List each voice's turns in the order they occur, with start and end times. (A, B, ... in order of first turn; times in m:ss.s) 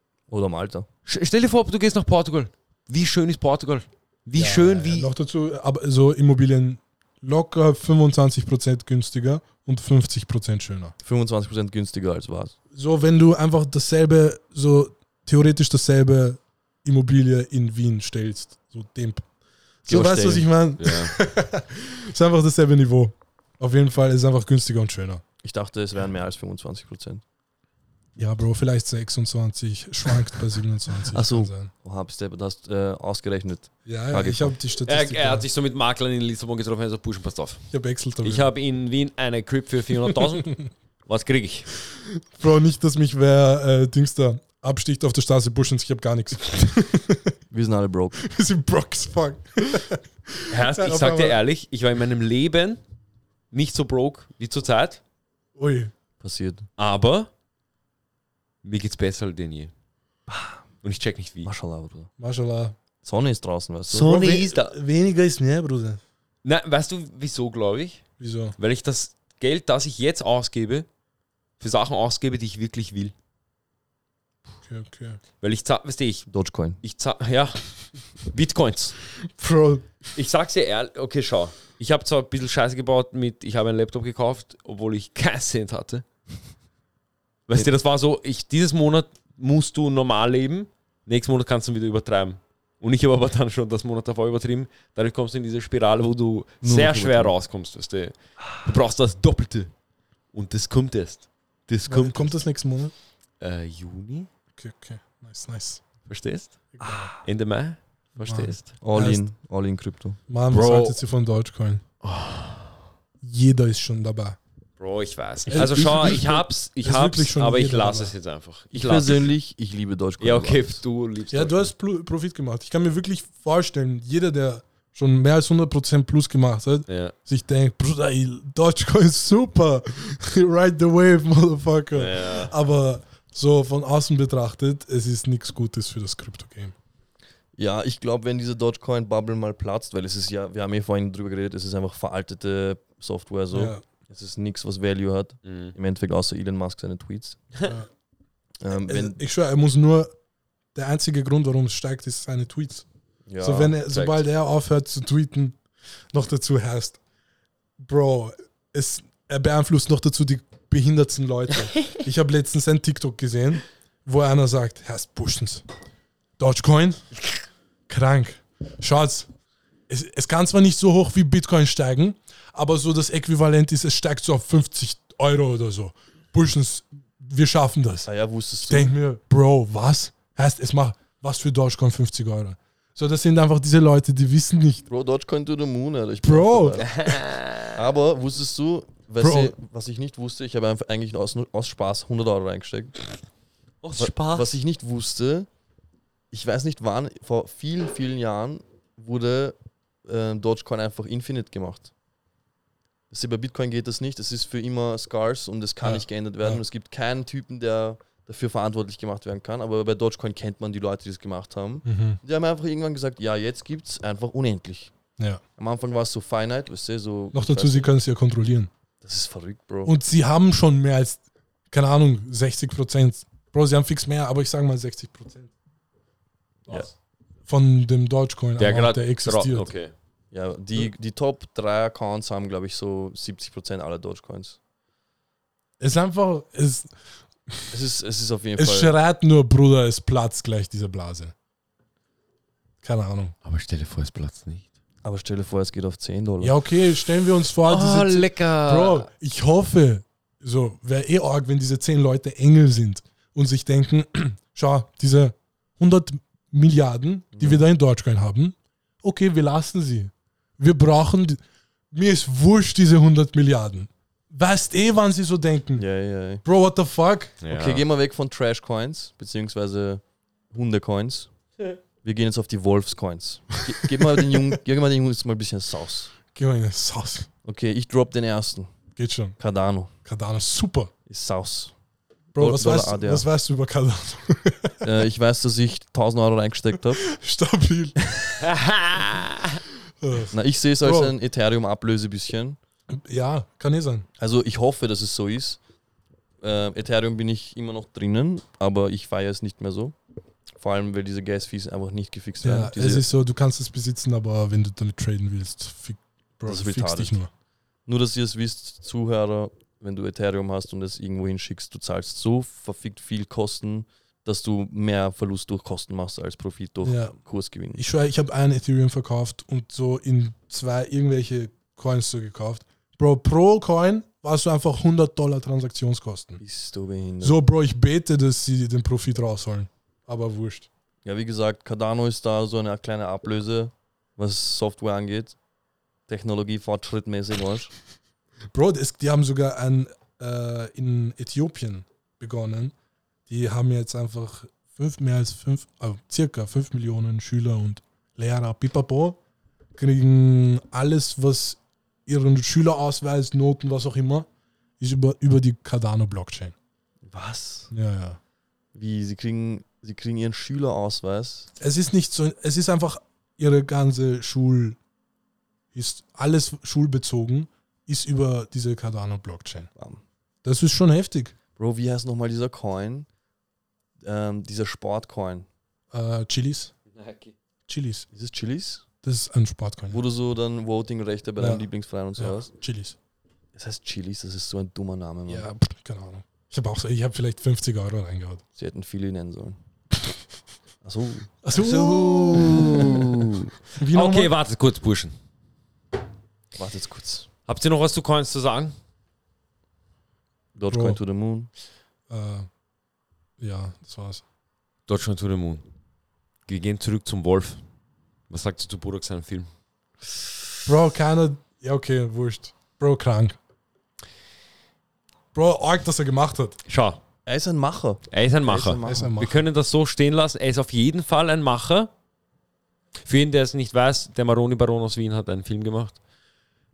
0:00.3-0:00.9 A
0:01.0-0:05.1 B
0:04.4-0:10.9 C
0:11.0-0:12.5 A
0:12.7-0:19.2 C
0:19.8-0:25.2 C
0:19.9-0:20.5 A
0:20.8-0:21.2 B
0:25.4-0:27.2 A
0:28.2-0:31.7 C
0:31.1-0:34.6 A
0:33.8-0:35.4 C
0:34.8-0:37.7 B
0:37.7-0:38.5 C
0:38.2-0:41.7 B
0:40.1-0:40.5 C
0:41.9-0:47.4 C
0:47.5-0:48.2 A
0:48.2-0:51.4 C
0:50.5-0:52.8 B
0:53.5-0:55.0 B
0:55.6-0:55.9 C
0:56.2-0:56.7 A
0:56.8-0:57.3 B
0:58.6-0:59.7 B
1:00.3-1:00.6 A
1:00.8-1:01.5 B
1:01.4-1:02.1 A
1:02.2-1:02.8 C
1:03.0-1:04.1 A
1:03.9-1:04.8 B
1:04.0-1:06.0 C
1:06.4-1:08.0 B
1:08.2-1:08.6 C
1:08.6-1:10.9 B
1:11.6-1:13.1 B
1:14.6-1:15.2 C
1:15.4-1:16.3 B
1:16.3-1:16.8 A
1:16.8-1:17.6 B
1:18.2-1:19.0 B
1:19.2-1:19.8 C
1:20.1-1:26.0 B
1:27.5-1:39.7 B
1:36.6-1:37.3 A
1:40.3-1:42.4 B
1:41.9-1:42.9 C
1:43.4-1:44.3 B
1:44.6-1:45.8 C
1:46.1-1:46.6 B
1:46.7-1:47.1 C
1:46.8-1:47.2 A
1:47.2-1:48.7 B
1:48.2-1:49.2 C
1:48.8-1:50.2 A
1:50.3-1:51.8 C
1:50.5-1:51.0 B
1:52.0-1:52.7 B
1:53.2-1:54.4 C
1:54.8-1:59.3 B
1:55.5-1:58.1 C
1:58.7-2:00.8 A
2:00.2-2:01.7 B
2:01.3-2:16.7 C
2:06.9-2:07.1 B
2:11.9-2:12.5 B
2:17.6-2:27.4 A
2:23.5-2:23.8 C
2:25.4-2:25.7 B
2:28.6-2:29.2 A
2:28.7-2:30.1 C
2:30.7-2:32.8 C
2:33.3-2:33.8 A
2:33.4-2:35.6 C
2:33.9-2:34.2 B
2:36.1-2:37.0 C
2:37.8-2:45.6 C
2:46.4-2:47.0 C
2:47.9-2:49.3 C
2:49.9-2:58.1 C
2:58.0-2:58.9 A
2:58.6-3:04.8 C
3:04.9-3:07.2 A
3:06.2-3:06.8 C
3:06.8-3:07.8 B
3:07.7-3:13.0 A
3:09.2-3:09.5 C
3:13.8-3:14.5 B
3:14.0-3:15.5 A
3:16.3-3:21.9 A
3:23.1-3:34.9 A
3:25.8-3:26.6 C
3:31.8-3:32.2 C
3:35.6-3:37.9 A
3:37.3-3:38.7 C
3:39.0-3:39.9 A
3:39.8-3:45.5 C
3:47.4-3:49.7 C
3:48.6-3:49.9 B
3:50.3-3:54.6 A
3:55.8-3:56.9 C
3:57.7-3:58.9 A
3:58.6-4:01.3 C
4:02.8-4:03.3 C
4:03.4-4:04.7 B
4:05.0-4:06.6 A
4:06.4-4:21.4 C
4:07.6-4:09.1 B
4:17.3-4:17.6 A
4:21.9-4:25.8 C
4:25.8-4:26.4 A
4:26.4-4:27.4 C
4:27.4-4:27.8 B
4:27.5-4:30.0 A
4:30.5-4:31.3 A
4:32.0-4:36.1 A
4:33.8-4:34.3 C
4:36.3-4:37.3 C
4:37.4-4:38.7 A
4:39.0-4:39.4 C
4:39.4-4:39.9 A
4:40.0-4:40.9 C
4:41.1-4:41.7 A
4:42.3-4:44.8 C
4:42.4-4:43.2 A
4:44.8-4:47.0 A
4:47.0-4:48.0 C
4:48.4-4:49.6 B
4:50.0-4:51.1 C
4:50.3-4:52.6 A
4:52.9-4:54.1 C
4:54.2-4:55.6 A
4:56.4-4:59.9 A
5:00.6-5:03.0 A
5:02.4-5:07.3 C
5:06.4-5:07.2 A
5:07.9-5:17.8 A
5:16.8-5:17.2 C
5:17.7-5:26.4 C
5:26.4-5:27.4 A
5:27.2-5:30.7 C
5:31.0-5:35.4 A
5:36.1-5:37.7 A
5:38.5-5:42.7 C
5:43.3-5:49.2 C
5:49.7-5:54.3 C
5:54.8-5:56.5 C
5:57.1-5:57.7 A
5:57.7-5:58.2 C
5:58.7-6:01.5 A
6:01.6-6:04.8 C
6:05.7-6:09.7 C
6:10.4-6:11.3 C
6:11.6-6:13.1 A
6:14.0-6:15.5 A
6:15.9-6:16.7 C
6:16.9-6:17.3 B
6:17.7-6:18.1 C
6:18.1-6:18.8 A
6:19.0-6:20.0 C
6:19.9-6:22.5 A
6:21.4-6:21.6 C
6:22.2-6:23.0 C
6:23.5-6:25.5 A
6:25.3-6:28.4 C
6:28.6-6:29.6 A
6:30.8-6:31.4 A
6:31.4-6:34.3 C
6:31.5-6:35.1 B
6:36.5-6:37.3 A
6:37.4-6:38.7 B
6:40.6-6:41.5 A
6:40.7-6:41.0 C
6:42.1-6:42.5 C
6:43.4-6:44.2 C
6:44.9-6:45.6 B
6:46.5-6:47.6 B
6:48.3-6:49.5 B
6:50.6-6:53.4 C
6:55.3-6:56.6 C
6:56.6-6:57.0 B
6:57.2-6:59.2 A
6:58.1-7:01.9 B
6:58.8-6:59.4 C
7:03.0-7:06.0 B